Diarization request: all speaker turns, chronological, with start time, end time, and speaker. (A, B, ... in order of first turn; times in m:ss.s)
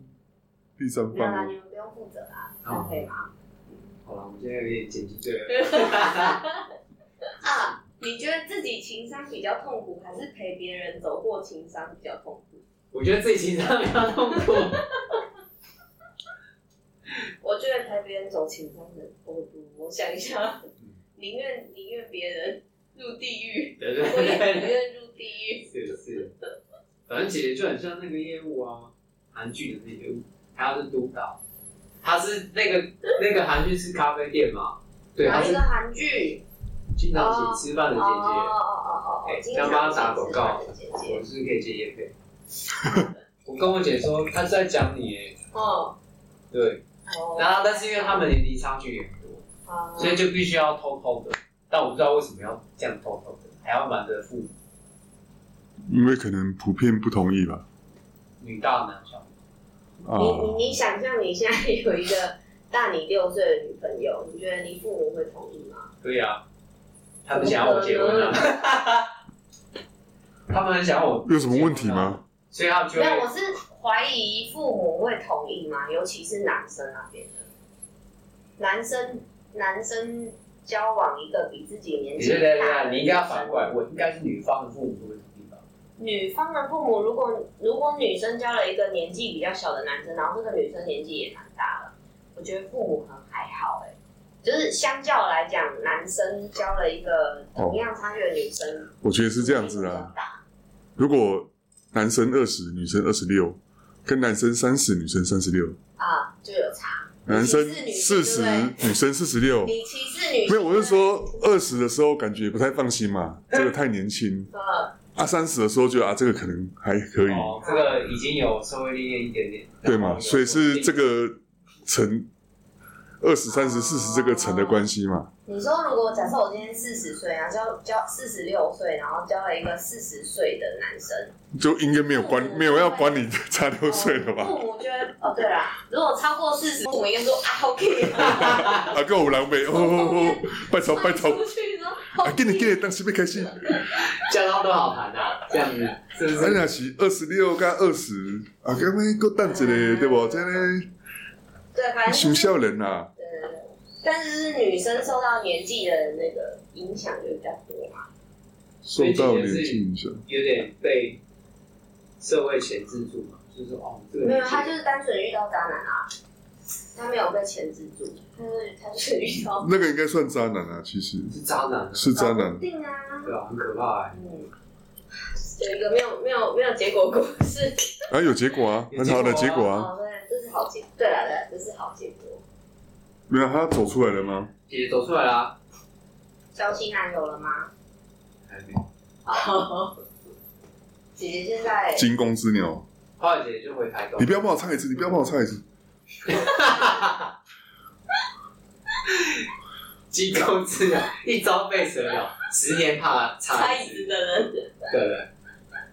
0:00.8-0:01.5 A
0:01.1-0:03.8 B
0:02.6-0:03.0 C
0:04.0-0:06.5 C
0:05.6-0:06.6 B
0:07.4-0:12.6 B
0:12.9-0:14.8 C
0:17.4-0:20.6 B
0:21.2-0:25.7 B
0:23.8-0:24.8 C
0:25.7-0:26.3 C
0:27.1-0:31.4 C
0:32.0-0:35.6 C
0:35.2-0:36.4 B
0:37.0-0:38.5 C
0:37.1-0:41.2 B
0:39.2-0:42.1 C
0:42.8-0:43.1 B
0:43.4-0:45.4 C
0:45.5-0:45.9 B
0:46.5-0:46.8 C
0:47.1-0:48.3 B
0:47.3-0:49.4 C
0:49.7-0:50.2 B
0:50.0-0:54.5 C
0:55.8-0:57.6 A
0:58.4-0:59.2 C
1:00.0-1:00.7 A
1:00.1-1:05.9 B
1:06.0-1:06.4 C
1:07.2-1:09.1 C
1:07.3-1:08.5 B
1:10.5-1:13.3 C
1:11.2-1:12.2 A
1:12.9-1:17.4 B
1:18.6-1:23.7 B
1:22.2-1:25.6 C
1:26.0-1:40.4 B
1:39.0-1:40.1 A
1:41.0-1:45.8 A
1:46.0-1:48.8 B
1:47.2-1:49.7 A
1:49.6-1:51.1 B
1:50.4-1:54.5 A
1:54.5-1:54.9 B
1:55.1-1:57.6 A
1:57.3-2:01.0 C
1:57.6-1:58.0 B
1:59.8-2:02.3 A
2:03.2-2:05.3 A
2:03.5-2:04.8 B
2:05.4-2:11.3 B
2:11.5-2:14.5 A
2:12.1-2:13.2 B
2:13.9-2:18.8 B
2:18.2-2:21.4 A
2:18.3-2:18.8 C
2:19.7-2:22.8 B
2:22.2-2:23.8 A
2:23.9-2:26.6 C
2:26.3-2:30.9 A
2:29.4-2:30.7 B
2:31.7-2:32.6 B
2:32.1-2:33.1 A
2:33.2-2:38.1 B
2:38.8-2:40.2 A
2:39.0-2:41.2 C
2:42.2-2:44.7 C
2:44.2-2:46.1 B
2:46.9-2:49.7 B
2:49.6-2:51.3 A
2:51.3-2:52.2 C
2:51.9-2:52.6 A
2:52.1-2:53.3 B
2:53.2-2:54.2 C
2:54.1-2:54.5 B
2:55.3-2:58.1 B
2:58.1-2:59.9 A
2:58.9-2:59.7 C
2:59.4-3:02.4 B
3:03.3-3:04.5 A
3:04.7-3:05.6 C
3:06.5-3:07.7 B
3:08.5-3:08.8 C
3:09.2-3:09.9 B
3:11.2-3:12.0 B
3:11.9-3:12.8 A
3:13.2-3:14.4 C
3:14.2-3:15.6 A
3:16.2-3:17.3 C
3:19.0-3:19.4 C
3:20.1-3:24.1 C
3:23.5-3:24.6 B
3:24.9-3:25.3 C